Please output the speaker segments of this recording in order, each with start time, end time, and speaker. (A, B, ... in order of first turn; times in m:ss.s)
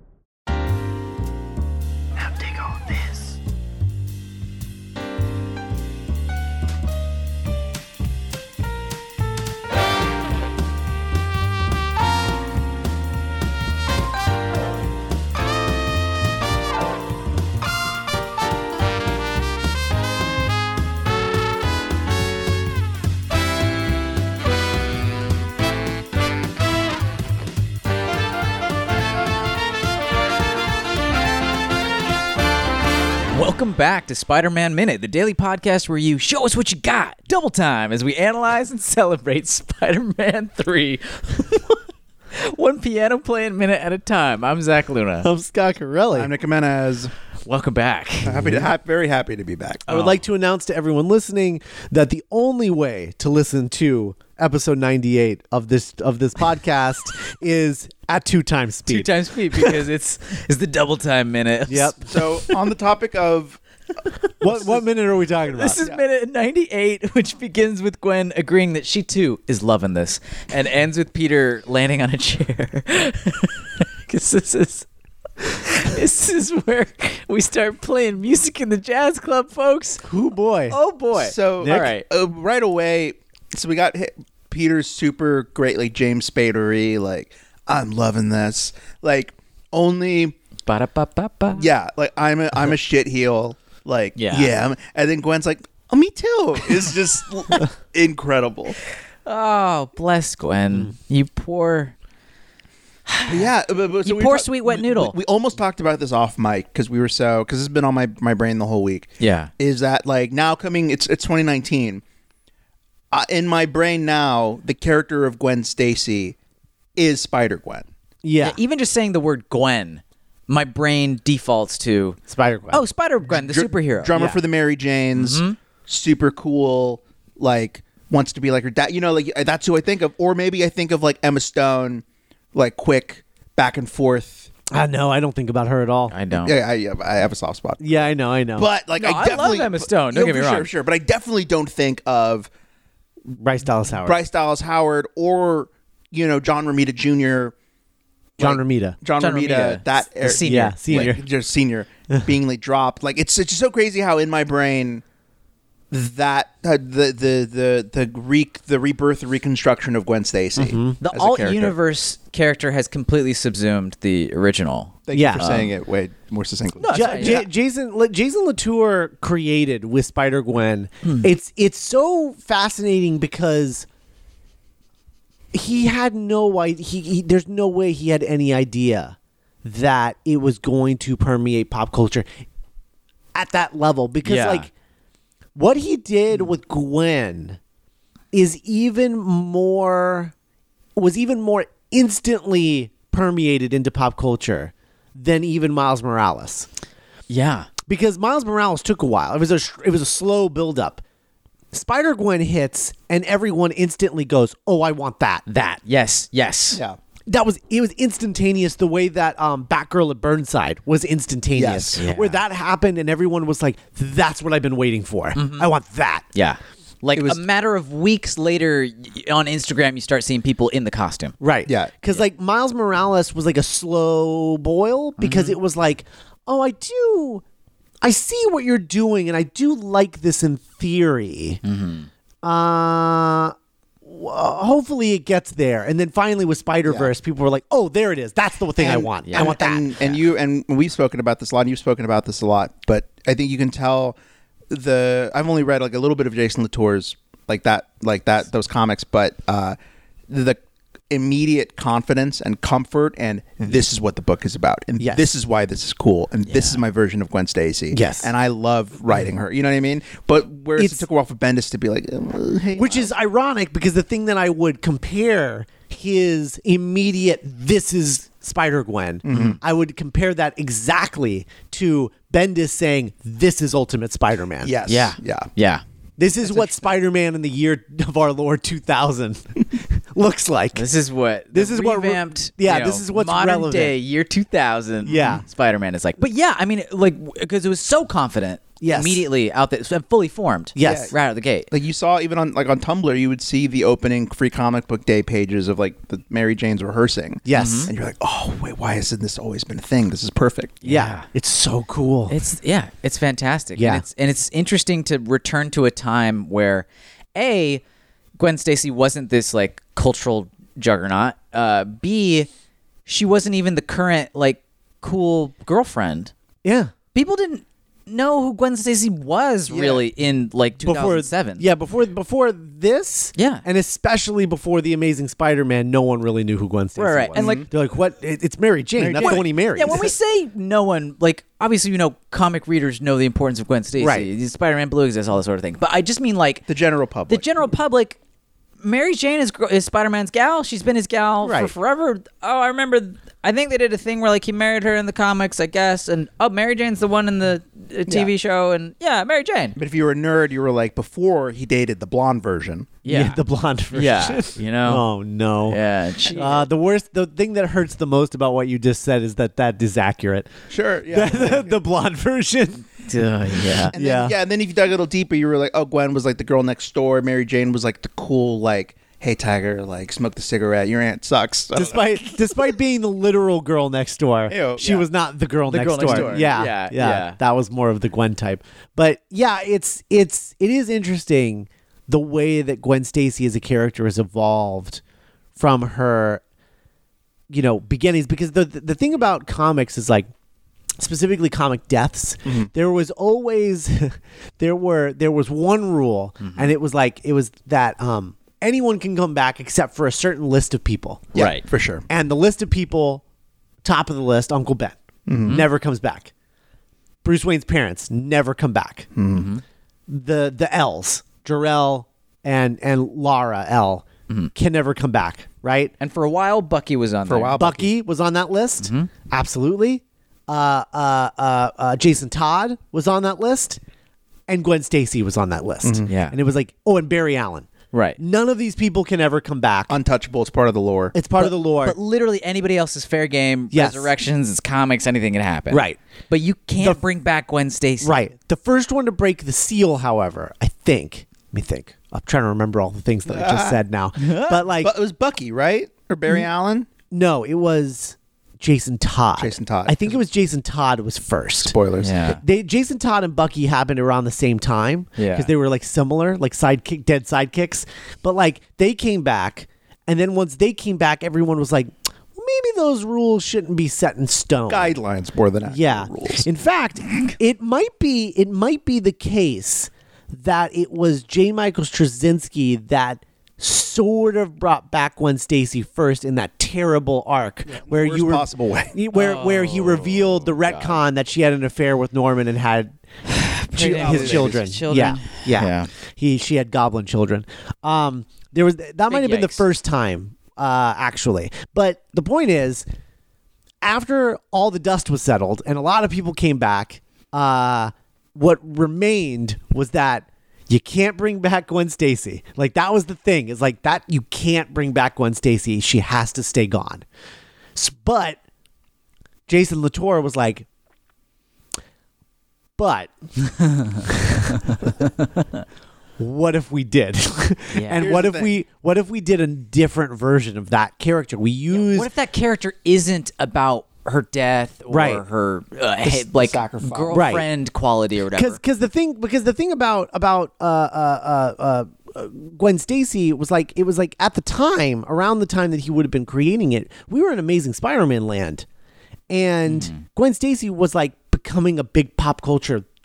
0:02.2-0:03.2 A
0:33.3-0:41.8 A
0:42.3-0:45.3 A
0:45.2-0:46.3 B
0:46.1-0:47.1 C
0:47.4-0:48.4 A
0:48.2-0:49.9 C
0:49.9-0:50.2 A
0:49.9-0:59.8 B
0:58.8-1:02.2 A
1:01.7-1:02.0 B
1:02.0-1:03.6 C
1:04.4-1:05.8 B
1:04.5-1:04.8 C
1:05.5-1:14.9 A
1:15.4-1:20.0 A
1:20.0-1:20.8 B
1:20.7-1:22.0 A
1:21.1-1:30.3 C
1:21.6-1:21.9 B
1:30.7-1:31.7 A
1:31.6-1:38.8 C
1:34.2-1:34.5 A
1:39.2-1:41.9 A
1:43.1-1:43.5 A
1:43.3-1:52.0 C
1:44.0-1:45.2 A
1:49.2-1:49.5 A
1:53.1-1:56.4 C
1:57.0-1:57.9 C
1:58.2-1:58.6 B
1:58.4-2:02.2 A
2:02.3-2:02.8 B
2:02.7-2:04.1 A
2:03.3-2:14.5 C
2:04.1-2:04.4 B
2:05.1-2:05.6 A
2:14.7-2:16.1 B
2:16.1-2:16.5 A
2:16.3-2:22.5 C
2:17.8-2:18.7 B
2:19.0-2:20.7 A
2:23.3-2:24.2 B
2:24.0-2:27.5 C
2:28.4-2:29.0 B
2:28.4-2:35.0 C
2:29.2-2:31.1 A
2:30.4-2:31.2 B
2:35.9-2:41.8 C
2:40.6-2:41.0 B
2:41.0-2:45.7 A
2:45.1-2:47.5 C
2:45.1-2:45.4 B
2:46.8-2:47.4 A
2:46.9-2:53.9 B
2:51.0-2:51.3 A
2:55.5-3:02.3 B
3:03.3-3:04.7 B
3:04.2-3:04.7 A
3:05.5-3:07.6 B
3:08.3-3:10.3 B
3:11.0-3:16.7 B
3:17.3-3:17.7 A
3:17.9-3:21.0 B
3:21.7-3:25.4 B
3:25.5-3:26.8 A
3:27.3-3:36.2 B
3:31.6-3:32.0 C
3:32.0-3:32.4 A
3:35.3-3:35.7 A
3:36.3-3:41.4 A
3:37.1-3:37.4 C
3:41.4-3:47.4 B
3:41.6-3:41.9 C
3:45.2-3:45.6 A
3:48.0-3:51.6 B
3:51.6-3:52.1 A
3:52.4-3:59.9 B
3:56.8-3:57.1 C
3:58.8-4:04.2 C
3:59.2-3:59.5 A
4:04.7-4:09.8 C
4:10.3-4:10.6 C
4:11.1-4:23.1 C
4:15.0-4:15.3 B
4:16.5-4:16.8 A
4:17.9-4:18.3 B
4:20.8-4:21.0 B
4:22.7-4:34.7 B
4:29.2-4:29.6 C
4:34.6-4:35.5 C
4:34.9-4:35.8 A
4:36.2-4:40.8 B
4:40.7-4:51.7 A
4:41.5-4:43.9 B
4:45.0-4:45.4 B
4:45.1-4:45.4 C
4:48.8-4:49.2 B
4:50.7-4:51.1 B
4:50.8-4:51.1 C
4:51.7-5:00.8 C
4:57.4-4:57.9 B
4:57.5-4:57.9 A
5:00.8-5:01.3 A
5:00.8-5:02.4 B
5:02.3-5:07.8 A
5:03.8-5:04.0 B
5:08.4-5:12.5 A
5:13.0-5:16.3 A
5:16.6-5:16.9 B
5:17.1-5:21.6 A
5:19.7-5:20.0 C
5:20.8-5:30.1 B
5:23.4-5:23.6 A
5:27.0-5:27.7 A
5:27.3-5:27.7 C
5:29.0-5:30.0 C
5:29.2-5:36.6 A
5:34.0-5:34.3 B
5:36.7-5:37.4 C
5:37.3-5:38.2 A
5:38.8-5:49.8 A
5:41.4-5:41.7 B
5:49.8-5:53.0 C
5:53.0-5:53.4 A
5:53.1-5:55.8 B
5:53.9-5:55.0 A
5:55.6-5:56.6 A
5:56.3-5:56.6 C
5:56.3-6:00.5 B
6:00.7-6:01.8 C
6:01.1-6:02.8 B
6:03.0-6:03.9 A
6:03.9-6:04.4 B
6:03.9-6:12.3 C
6:11.7-6:25.0 B
6:14.5-6:15.1 C
6:15.7-6:17.4 A
6:16.0-6:16.6 C
6:25.6-6:26.4 B
6:27.5-6:30.3 B
6:31.0-6:41.3 B
6:36.4-6:36.7 A
6:41.3-6:41.6 A
6:41.3-6:42.0 C
6:42.1-6:43.2 B
6:43.8-6:46.3 B
6:45.3-6:45.6 C
6:47.2-6:49.0 B
6:49.1-6:49.5 C
6:49.3-6:49.6 A
6:50.1-6:55.9 B
6:56.0-6:57.6 A
6:57.2-6:57.9 C
6:57.6-7:03.8 B
6:58.8-6:59.1 A
7:04.5-7:09.9 B
7:05.8-7:06.1 C
7:06.0-7:06.4 A
7:07.9-7:08.2 A
7:09.9-7:11.1 C
7:11.1-7:12.0 B
7:11.4-7:18.1 A
7:13.7-7:14.1 B
7:15.7-7:16.0 B
7:18.0-7:24.9 B
7:23.3-7:23.8 C
7:24.5-7:26.9 C
7:27.1-7:31.8 B
7:29.4-7:30.2 C
7:31.6-7:32.2 C
7:32.0-7:32.4 A
7:32.3-7:45.0 B
7:35.2-7:35.5 A
7:44.7-7:46.5 C
7:45.6-8:03.0 B
7:57.7-7:58.9 C
7:59.1-8:01.0 A
8:03.3-8:05.9 A
8:03.7-8:12.8 B
8:03.8-8:04.7 C
8:09.1-8:09.6 A
8:13.8-8:27.0 B
8:27.8-8:28.4 B
8:29.5-8:30.6 B
8:32.8-8:33.1 B
8:34.0-8:34.9 B
8:36.2-8:42.1 B
8:37.7-8:38.1 A
8:37.9-8:38.6 C
8:41.7-8:48.6 A
8:44.9-8:45.2 B
8:46.0-8:47.2 C
8:47.1-8:47.4 B
8:48.3-8:58.6 B
8:59.3-9:02.8 B
8:59.6-9:00.0 A